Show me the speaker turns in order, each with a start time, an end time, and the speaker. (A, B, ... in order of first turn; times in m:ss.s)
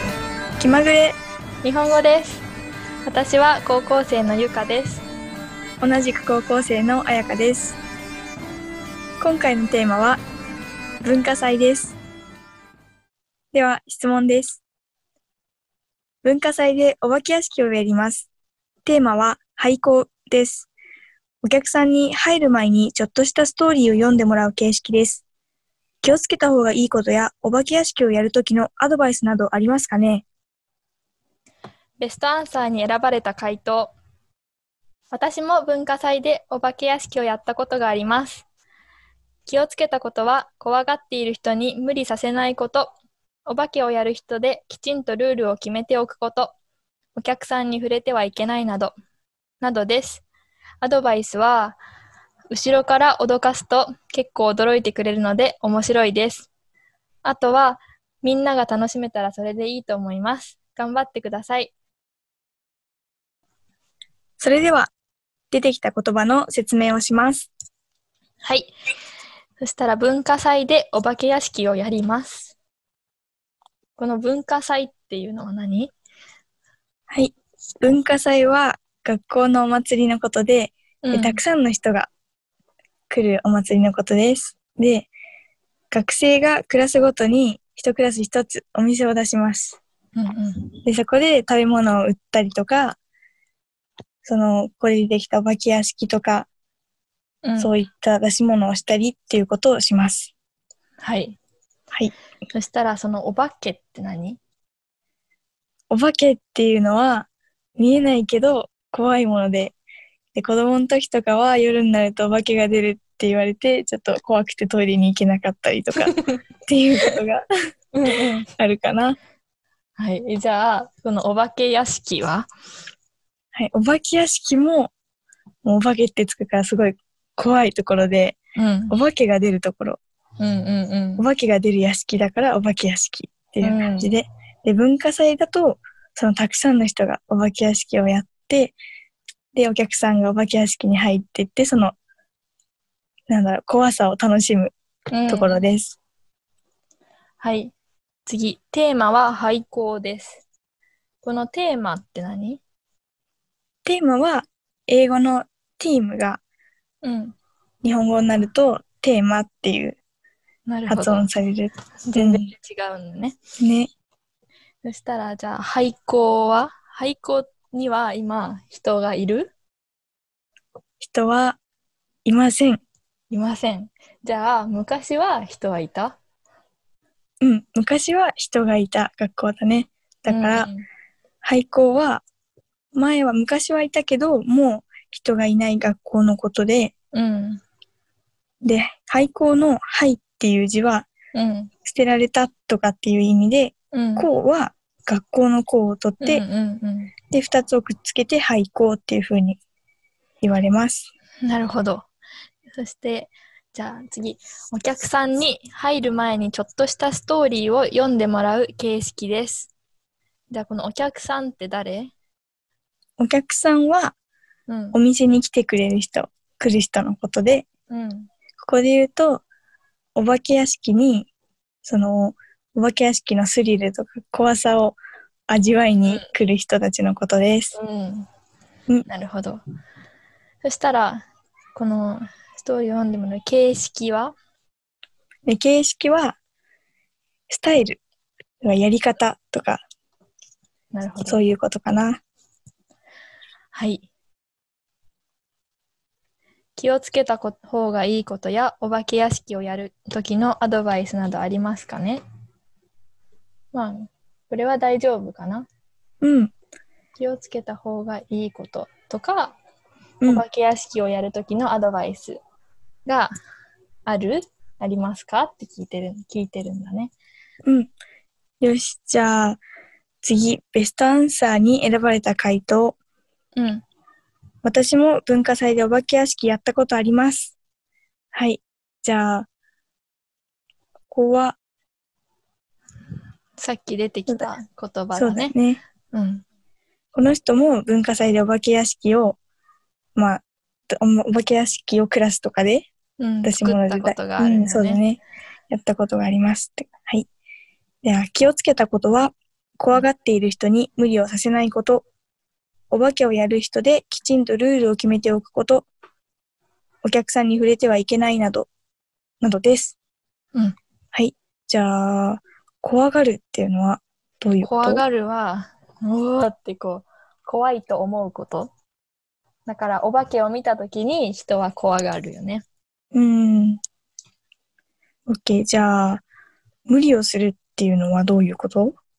0:00.6-0:01.2 A
0:01.6-0:02.5 B
0:03.1-0:05.0 B
0:05.8-0:07.8 A
0:09.2-0:10.2 A
0:11.0-0:12.0 A
0:13.5-0:14.6 A
0:16.2-0:18.3 A
0:18.8-0:20.7 A
0:21.4-0:25.2 A
0:26.0-0:30.2 A
0:32.0-0:33.9 B
0:35.1-0:38.4 B
0:39.4-0:42.9 B
0:43.4-0:46.5 B
0:47.2-0:49.0 B
0:49.6-0:50.2 B
0:50.8-0:51.8 B
0:52.5-0:56.5 B
0:57.2-1:01.7 B
1:04.4-1:04.9 A
1:05.5-1:07.5 A
1:08.4-1:08.7 B
1:09.6-1:12.6 B
1:14.0-1:15.9 B
1:17.1-1:22.1 A
1:21.0-1:21.4 B
1:23.1-1:25.1 A
1:25.9-1:29.8 A
1:30.1-1:30.7 B
1:30.9-1:33.0 A
1:34.2-1:36.5 A
1:37.4-1:37.7 B
1:37.6-1:40.3 A
1:41.0-1:41.4 B
1:42.5-1:44.4 B
1:45.9-1:49.8 A
1:50.3-1:57.4 A
1:56.0-1:56.4 B
1:57.9-1:58.5 B
1:58.6-1:59.2 A
2:00.0-2:02.5 B
2:03.5-2:04.9 A
2:05.6-2:08.4 A
2:08.6-2:08.9 B
2:08.9-2:10.0 A
2:10.4-2:11.2 B
2:11.2-2:18.8 A
2:13.6-2:14.1 B
2:19.5-2:21.9 A
2:23.3-2:24.7 A
2:25.1-2:25.6 B
2:25.3-2:26.0 A
2:27.4-2:27.7 B
2:28.2-2:30.4 B
2:31.2-2:32.6 B
2:33.8-2:36.4 A
2:37.0-2:37.4 B
2:37.8-2:40.0 A
2:40.7-2:41.2 B
2:40.9-2:42.5 A
2:42.1-2:43.4 B
2:43.6-2:43.9 A
2:44.8-2:49.5 B
2:51.0-2:51.6 A
2:52.2-2:52.8 A
2:53.3-2:56.2 B
2:57.4-3:00.7 A
3:00.3-3:00.8 B
3:01.4-3:02.2 A
3:02.9-3:06.9 A
3:07.1-3:07.6 B
3:08.6-3:11.1 A
3:11.3-3:11.7 B
3:11.8-3:16.4 A
3:13.9-3:14.3 B
3:16.2-3:17.1 B
3:17.3-3:19.6 A
3:20.4-3:21.1 A
3:21.4-3:22.1 B
3:22.8-3:29.7 B
3:30.5-3:32.1 B
3:33.2-3:34.2 A
3:34.7-3:35.0 B
3:34.9-3:37.7 A
3:37.9-3:38.3 B
3:38.6-3:39.4 A
3:40.2-3:41.3 A
3:41.8-3:45.0 A
3:45.5-3:47.8 A
3:46.1-3:46.3 B
3:47.7-3:48.3 B
3:49.1-3:49.6 B
3:50.6-3:54.3 B
3:55.5-3:56.4 A
3:57.5-3:58.0 A
3:58.6-3:59.8 A
4:00.9-4:01.4 B
4:01.2-4:02.2 A
4:03.7-4:04.1 B
4:06.8-4:12.2 B
4:13.7-4:15.7 B
4:16.2-4:16.5 A
4:17.2-4:19.6 B
4:20.2-4:22.4 B
4:23.1-4:23.3 B
4:24.1-4:27.1 B
4:27.6-4:27.9 A
4:28.6-4:29.6 A
4:30.2-4:33.0 A
4:33.6-4:33.8 B
4:34.6-4:37.6 A
4:38.3-4:39.5 A
4:41.1-4:41.6 A
4:43.6-4:45.5 B
4:45.2-4:45.8 A
4:46.1-4:46.4 B
4:47.1-4:49.4 A
4:50.2-4:52.9 A
4:53.2-4:55.0 B
4:53.4-4:57.3 A
4:58.0-5:02.0 A
5:02.9-5:05.9 A
5:07.0-5:08.7 A
5:09.4-5:10.0 A
5:11.1-5:15.0 A
5:14.6-5:18.7 B
5:19.7-5:22.6 B
5:23.1-5:23.8 A
5:25.3-5:26.2 A
5:26.9-5:29.0 A